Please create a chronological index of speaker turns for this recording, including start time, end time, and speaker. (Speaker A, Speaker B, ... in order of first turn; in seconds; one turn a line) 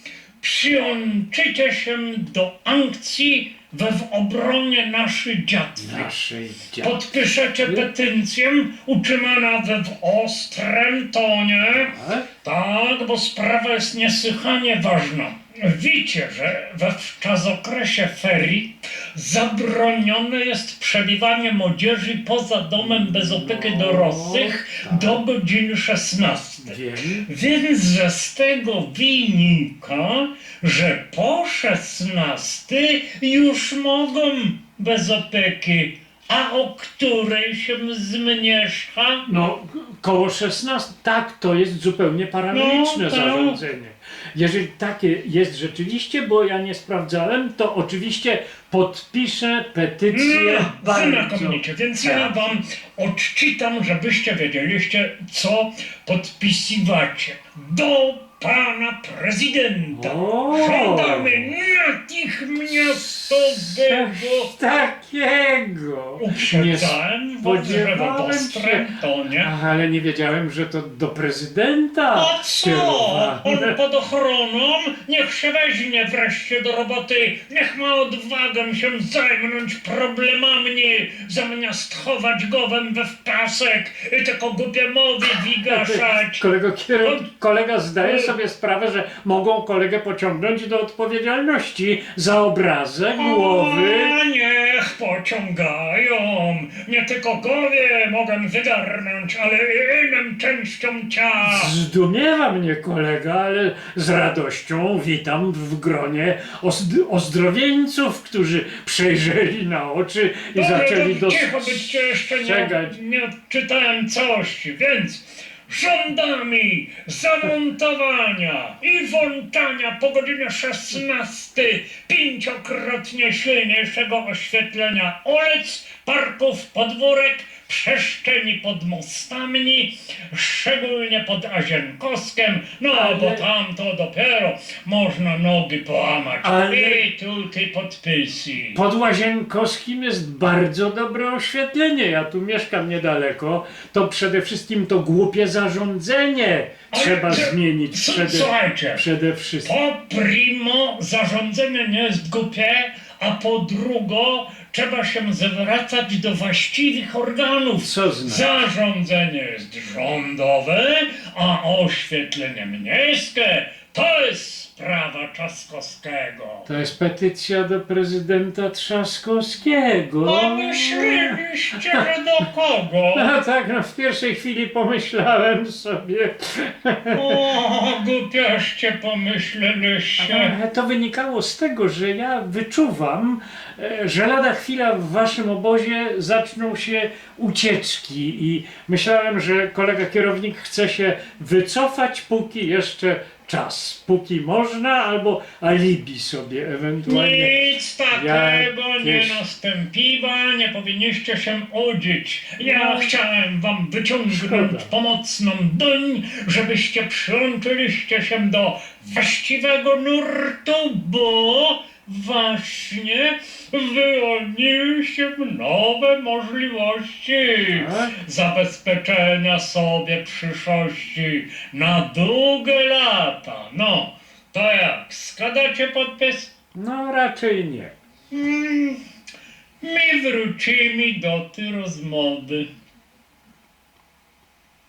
Speaker A: 0.4-6.1
Speaker B: 5.8-7.0
Speaker A: 6.8-39.2
Speaker B: 7.6-7.9
Speaker B: 11.7-12.3
Speaker B: 22.8-25.2
Speaker B: 26.6-27.3
Speaker B: 39.2-52.5
Speaker A: 42.5-43.6
Speaker A: 50.1-64.5
Speaker B: 59.9-61.5
Speaker B: 62.7-73.8
Speaker A: 66.2-69.5
Speaker A: 72.1-86.4
Speaker B: 85.6-94.2
Speaker A: 88.0-88.3
Speaker A: 93.2-101.7
Speaker B: 101.4-113.0
Speaker A: 110.5-138.8
Speaker B: 132.9-133.5
Speaker B: 136.4-137.0
Speaker B: 138.7-149.7
Speaker A: 146.9-149.1
Speaker A: 149.6-166.7
Speaker B: 157.8-158.5
Speaker B: 166.7-172.0
Speaker A: 170.2-173.3
Speaker B: 173.1-177.5
Speaker A: 177.1-180.5
Speaker B: 180.2-199.4
Speaker A: 197.1-226.5
Speaker B: 202.6-203.1
Speaker B: 204.3-204.9
Speaker B: 217.7-218.2
Speaker B: 226.7-227.9
Speaker A: 228.3-229.0
Speaker A: 229.8-232.7